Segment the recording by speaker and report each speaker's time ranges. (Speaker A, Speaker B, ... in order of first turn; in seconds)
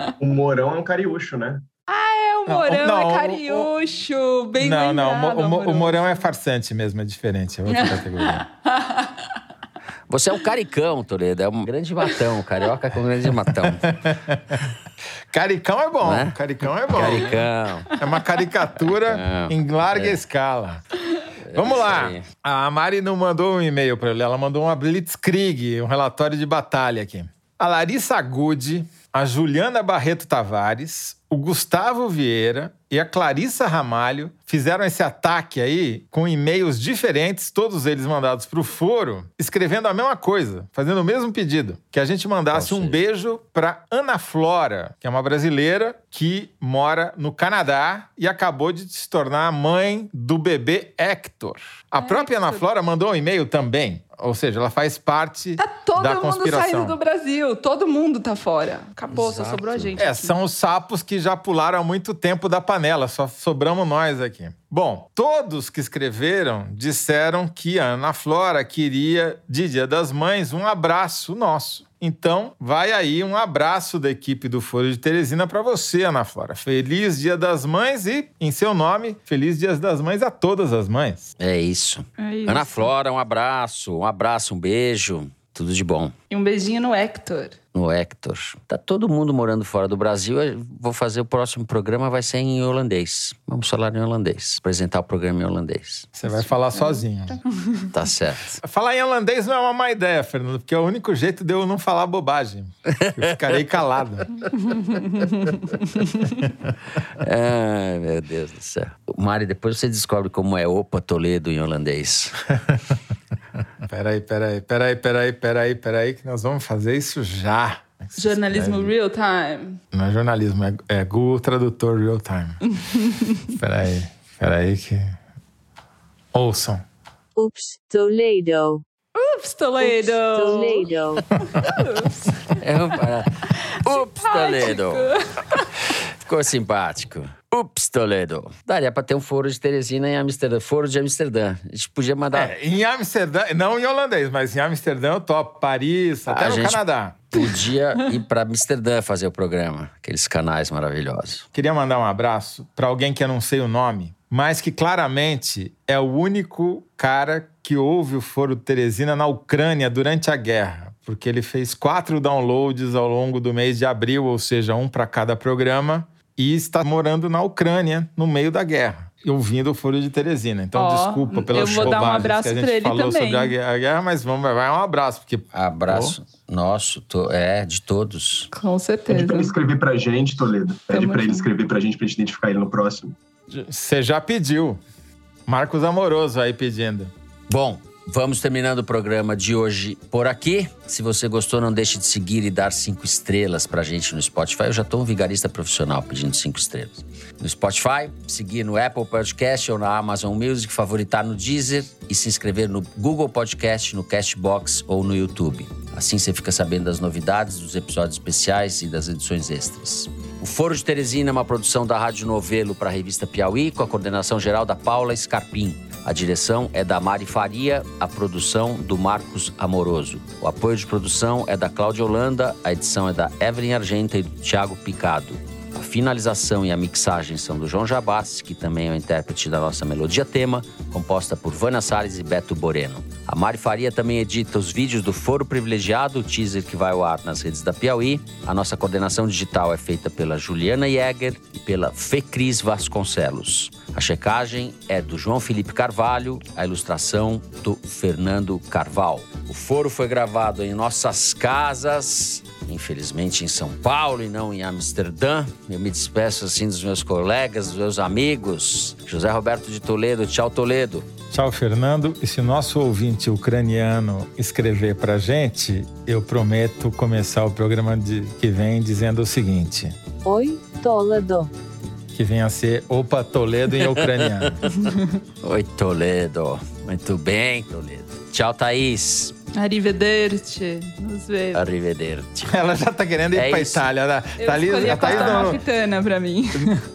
Speaker A: 0.2-1.6, 179.1-183.1
Speaker B: 1.9-6.3, 7.7-9.2, 52.0-52.6, 55.6-60.3, 82.2-82.9, 86.3-87.5, 96.5-97.9, 104.7-106.3, 118.2-119.8, 122.7-123.4, 129.1-130.9, 131.4-132.6, 133.7-135.7, 170.7-173.5, 178.5-179.5, 180.9-181.4, 279.5-281.6, 284.4-286.9
Speaker C: 2.5-3.7, 4.6-8.4, 13.5-14.6, 15.3-17.3, 18.0-20.8, 21.5-57.0, 60.0-81.3, 96.2-97.4, 98.6-104.3, 113.8-118.9, 119.9-122.6, 123.5-125.2, 126.3-126.8, 142.3-147.2, 151.5-176.1, 183.5-184.8, 185.4-187.1, 261.3-269.9, 272.1-274.6, 282.4-285.6
Speaker D: 10.1-14.1, 16.0-16.3, 16.9-17.9, 19.0-20.2, 21.5-22.2, 42.5-43.0, 59.1-59.9, 81.4-86.1, 87.7-96.1, 97.9-98.6, 103.0-103.5, 107.2-112.3, 132.6-135.1, 136.2-142.5, 146.3-151.4, 175.5-178.5, 187.5-261.1, 273.8-274.6, 275.4-279.3, 281.5-282.6, 283.3-283.8, 284.9-285.4
Speaker E: 127.3-128.8, 129.8-131.2, 270.2-271.5